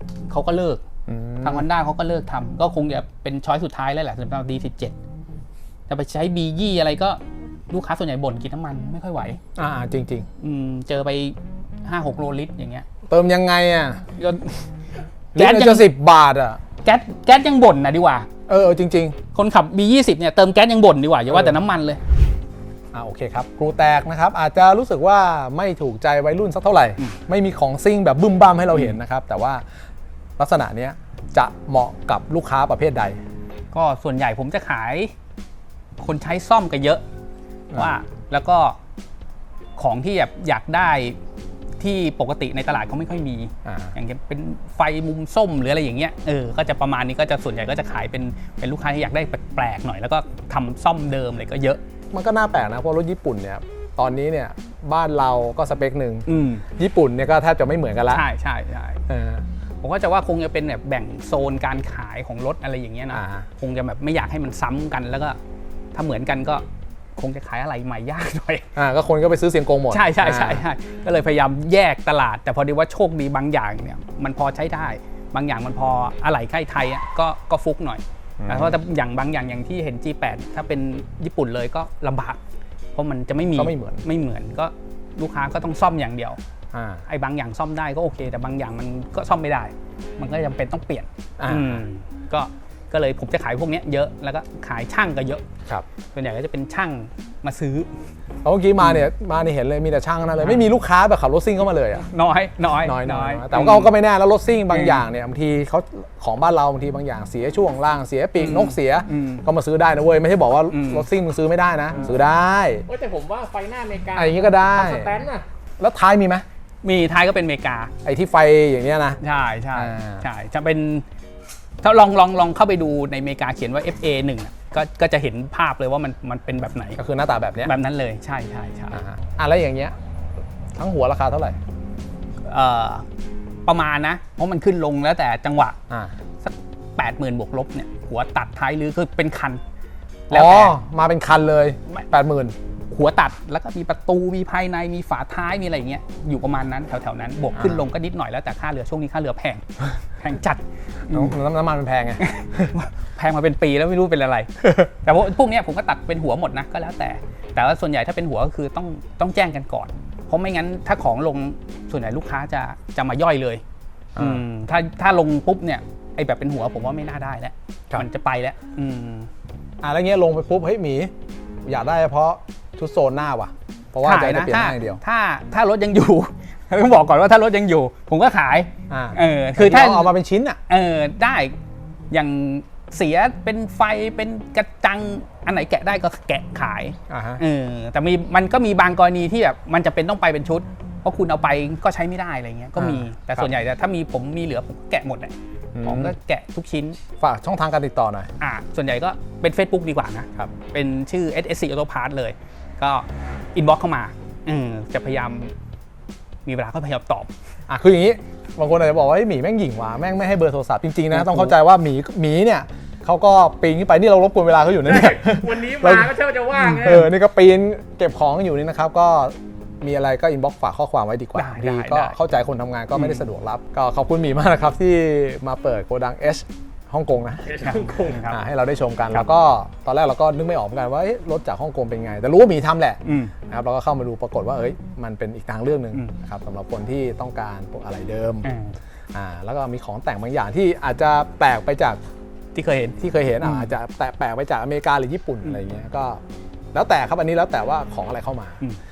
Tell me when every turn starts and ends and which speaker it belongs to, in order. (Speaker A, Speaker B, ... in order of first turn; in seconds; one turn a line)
Speaker A: 0.3-0.8
Speaker B: 1.1-1.7
Speaker A: 1.4-5.0
Speaker A: 5.9-9.4
Speaker B: 9.6-10.3
Speaker A: 10.4-12.9
Speaker B: 13.1-14.1
Speaker A: 14.2-14.7
Speaker A: 15.3-15.9
Speaker B: 15.3-16.6
Speaker A: 16.8-18.3
Speaker B: 18.5-19.2
Speaker A: 19.3-22.0
Speaker B: 21.3-21.6
Speaker B: 22.9-29.6
Speaker B: 30.4-33.2
Speaker A: 33.7-35.1
Speaker A: 36.0-37.0
Speaker B: 37.7-38.0
Speaker A: 37.8-38.8
Speaker A: 39.8-41.2
Speaker A: 41.8-51.8
Speaker B: 43.6-44.0
Speaker B: 52.1-58.3
Speaker A: 56.3-56.6
Speaker A: 58.1-59.0
Speaker B: 59.1-59.5
Speaker A: 59.8-65.4
Speaker B: 63.1-63.5
Speaker A: 65.9-66.7
Speaker A: 67.2-68.7
Speaker B: 68.8-70.6
Speaker A: 69.9-82.4
Speaker B: 78.4-78.8
Speaker A: 83.0-86.4
Speaker B: 83.5-84.0
Speaker B: 86.7-87.0
Speaker A: 87.1-95.5
Speaker B: 91.4-91.8
Speaker A: 96.2-97.9
Speaker B: 98.4-102.1
Speaker A: 100.4-100.7
Speaker A: 102.1-103.9
Speaker B: 102.8-112.8
Speaker A: 104.7-105.0
Speaker A: 108.4-109.5
Speaker A: 110.7-111.1
Speaker C: 112.9-115.4
Speaker B: 114.1-115.1
Speaker B: 115.8-116.5
Speaker A: 116.8-117.9
Speaker B: 118.0-119.2
Speaker A: 119.2-121.0
Speaker B: 119.7-120.2
Speaker A: 121.8-127.0
Speaker B: 127.0-127.7
Speaker A: 127.6-129.0
Speaker B: 128.9-129.9
Speaker B: 130.8-131.6
Speaker A: 132.4-133.1
Speaker A: 133.7-135.8
Speaker A: 136.4-139.6
Speaker A: 140.3-140.7
Speaker B: 140.3-142.6
Speaker A: 142.9-151.3
Speaker B: 147.6-147.8
Speaker B: 151.1-152.7
Speaker A: 152.2-163.6
Speaker B: 164.2-164.4
Speaker A: 164.2-169.3
Speaker B: 169.8-171.1
Speaker B: 171.7-175.0
Speaker A: 174.0-180.1
Speaker B: 178.9-180.6
Speaker A: 180.7-181.6
Speaker A: 182.1-197.0
Speaker B: 187.1-187.4
Speaker B: 192.8-193.5
Speaker B: 195.8-196.2
Speaker B: 197.2-198.3
Speaker A: 198.4-205.5
Speaker A: 206.5-207.3
Speaker B: 207.7-227.7
Speaker A: 211.1-211.5
Speaker C: 214.8-217.1
Speaker A: 221.3-222.2
Speaker A: 222.9-223.2
Speaker C: 227.5-228.3
Speaker A: 227.6-228.4
Speaker B: 228.2-238.5
Speaker A: 233.1-233.3
Speaker A: 238.4-238.8
Speaker B: 239.1-242.0
Speaker A: 242.6-243.7
Speaker B: 243.0-246.2
Speaker B: 246.7-248.6